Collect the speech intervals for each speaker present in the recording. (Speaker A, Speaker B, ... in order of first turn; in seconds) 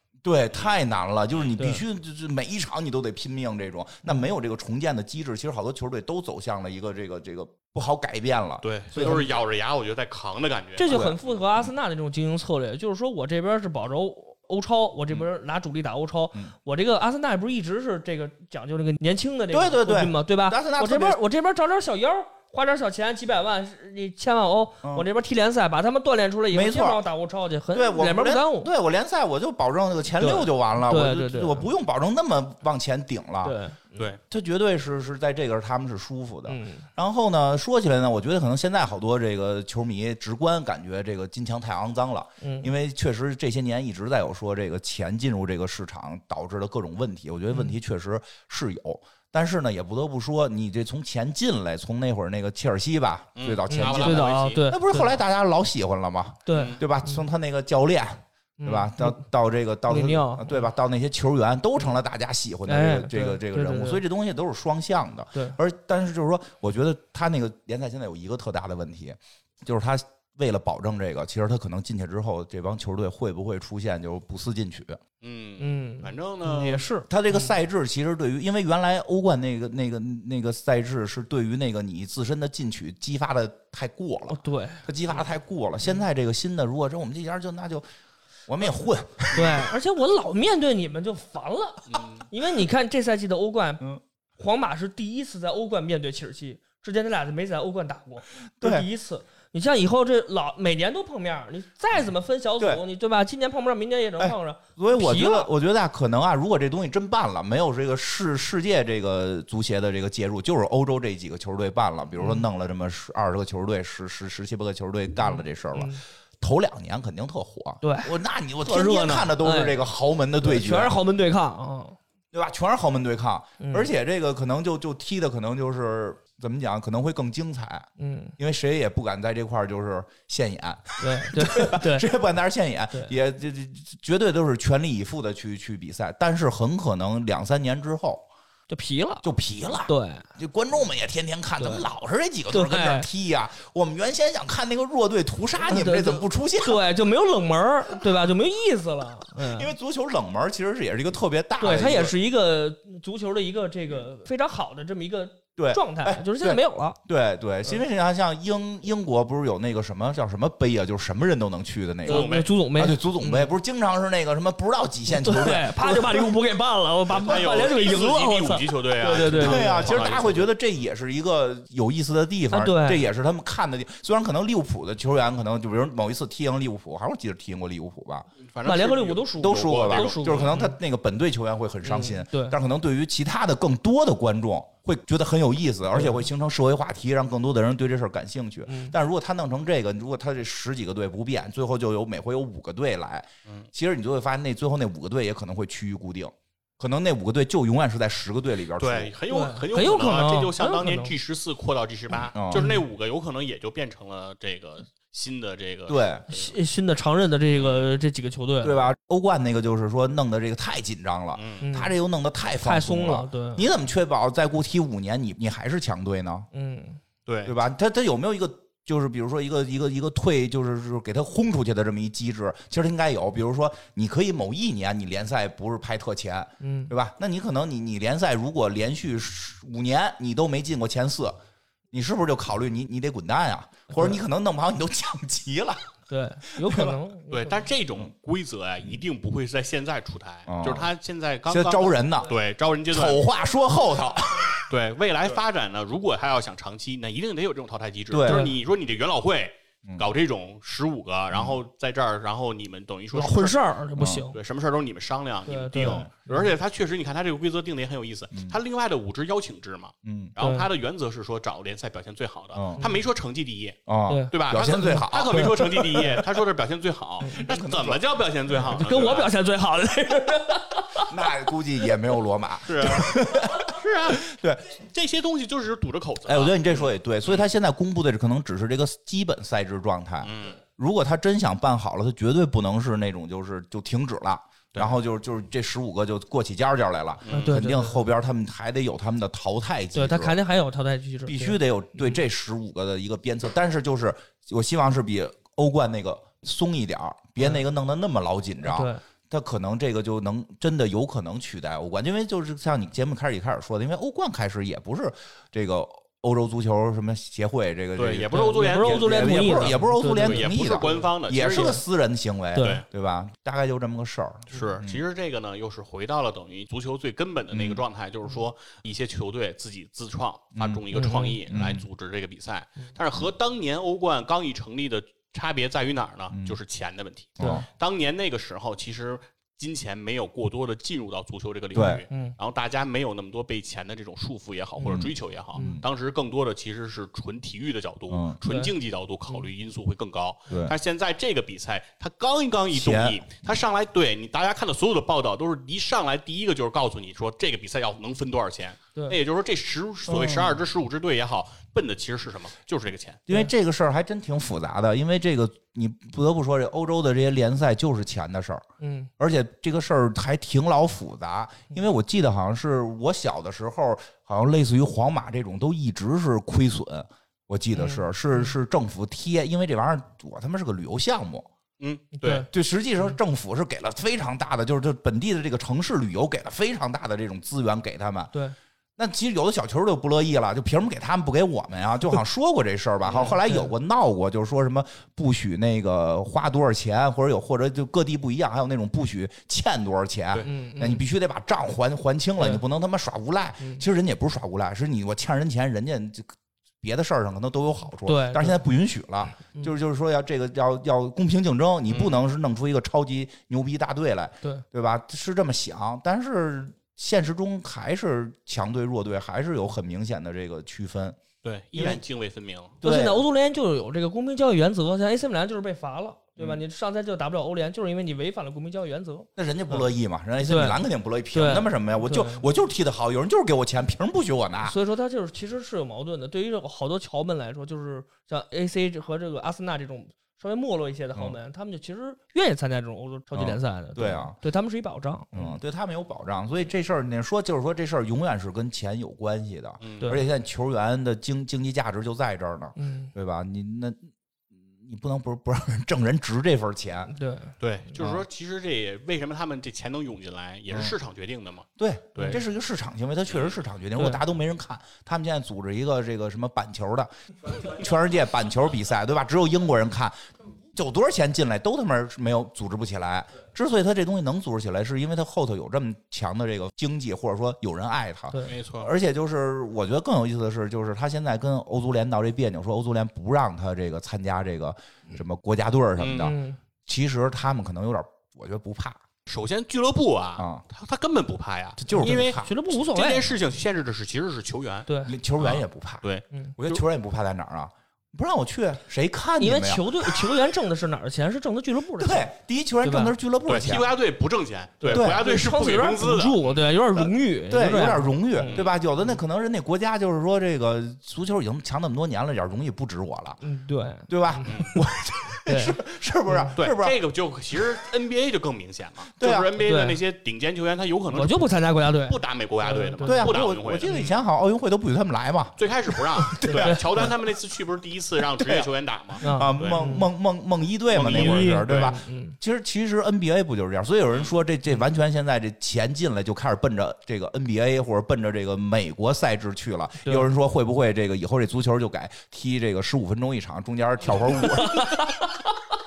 Speaker A: 0.2-9.2, 10.9-11.2, 19.5-21.2, 26.5-27.0, 27.7-33.6, 34.3-75.0, 77.1-87.8, 88.5-89.7, 98.6-98.9, 104.2-121.0, 122.3-127.9, 128.4-138.2, 139.2-146.8, 149.4-152.2, 155.6-166.3, 167.2-167.7, 169.2-178.3, 179.4-199.1, 202.3-202.8, 205.9-206.3, 208.6-216.5, 217.5-231.4, 231.9-235.8, 236.6-237.0, 240.5-240.9, 241.5-242.3, 242.9-244.7, 248.1-248.5, 251.3-251.6, 254.0-254.3, 255.8-256.1, 260.0-260.3, 262.5-262.8, 263.9-266.1, 267.4-268.0, 271.0-274.6, 276.2-290.4, 291.3-315.0, 317.5-317.8, 320.6-320.8, 321.5-321.8, 326.3-326.6, 327.4-327.7, 331.7-332.0, 334.9-335.9, 338.1-338.4, 340.5-340.7, 342.7-343.2, 350.1-350.6, 353.3-358.6, 359.2-371.5, 372.5-378.3, 379.0-411.2, 412.8-413.2, 419.4-424.8, 433.3-434.4, 435.3-447.1, 451.8-460.1, 460.7-479.0, 480.4-480.6, 481.8-482.6, 485.1-486.1, 486.6-490.4, 492.0-493.9, 494.9-495.2, 497.5-503.4, 504.1-507.0, 509.2-509.5, 513.0-517.1, 518.4-535.1
Speaker B: 1.6-1.8, 8.9-9.3, 10.8-28.7, 30.2-31.7, 33.4-34.0, 36.5-36.9, 42.4-42.7, 53.7-55.2, 56.5-57.2, 58.6-59.2, 59.9-60.6, 62.7-64.0, 75.6-77.5, 84.3-84.8, 89.3-93.8, 94.4-105.5, 112.2-112.5, 115.2-116.0, 117.8-119.8, 120.4-122.0, 123.6-123.9, 128.0-128.3, 131.0-132.1, 138.7-139.3, 139.9-140.2, 141.6-141.9, 142.5-143.1, 145.7-149.7, 151.6-157.0, 162.1-163.5, 165.1-170.2, 172.5-173.0, 178.7-180.8, 181.8-182.6, 185.9-186.2, 188.7-188.9, 199.3-201.1, 202.5-202.8, 206.3-208.8, 211.6-212.0, 212.6-213.7, 216.5-217.0, 226.6-226.9, 233.9-234.2, 236.1-237.7, 248.3-248.6, 253.1-254.4, 255.5-256.5, 260.4-260.7, 264.1-266.3, 267.2-267.5, 268.6-271.1, 287.3-288.0, 289.9-292.2, 298.6-299.0, 308.3-311.8, 312.6-312.8, 320.9-321.4, 327.4-327.6, 331.8-332.4, 334.8-335.8, 338.5-338.7, 358.8-359.1, 367.8-368.5, 372.2-372.5, 383.1-383.7, 390.4-391.0, 392.4-392.6, 398.1-398.6, 399.4-399.7, 412.8-419.9, 420.4-420.8, 421.3-422.4, 424.6-435.6, 442.8-443.1, 447.1-447.6, 452.2-452.4, 454.0-454.2, 476.1-476.6, 481.9-483.3, 484.9-485.1, 489.4-492.3, 492.8-493.1, 494.8-498.6, 503.4-504.7, 505.5-506.6, 509.6-510.0, 511.1-514.1, 516.4-517.1, 519.2-520.1, 521.1-522.4, 530.0-530.3, 534.4-535.4
Speaker C: 8.6-11.4, 53.4-54.6, 56.5-56.8, 75.2-76.8, 91.9-92.2, 162.1-162.5, 167.1-170.5, 178.4-180.5, 198.8-206.5, 207.5-207.9, 211.3-211.7, 217.3-217.6, 237.3-243.2, 244.7-253.6, 254.3-263.8, 264.3-269.3, 272.6-277.5, 280.2-280.6, 287.2-287.6, 308.0-311.8, 312.6-312.9, 314.5-353.2, 371.8-372.5, 401.9-402.1, 411.4-412.8, 439.8-440.2, 447.6-452.4, 468.4-468.9, 476.0-476.3, 479.3-486.8, 493.4-496.6, 498.4-498.8, 504.5-504.8, 506.6-511.5, 512.0-514.1, 515.6-519.8, 520.9-521.9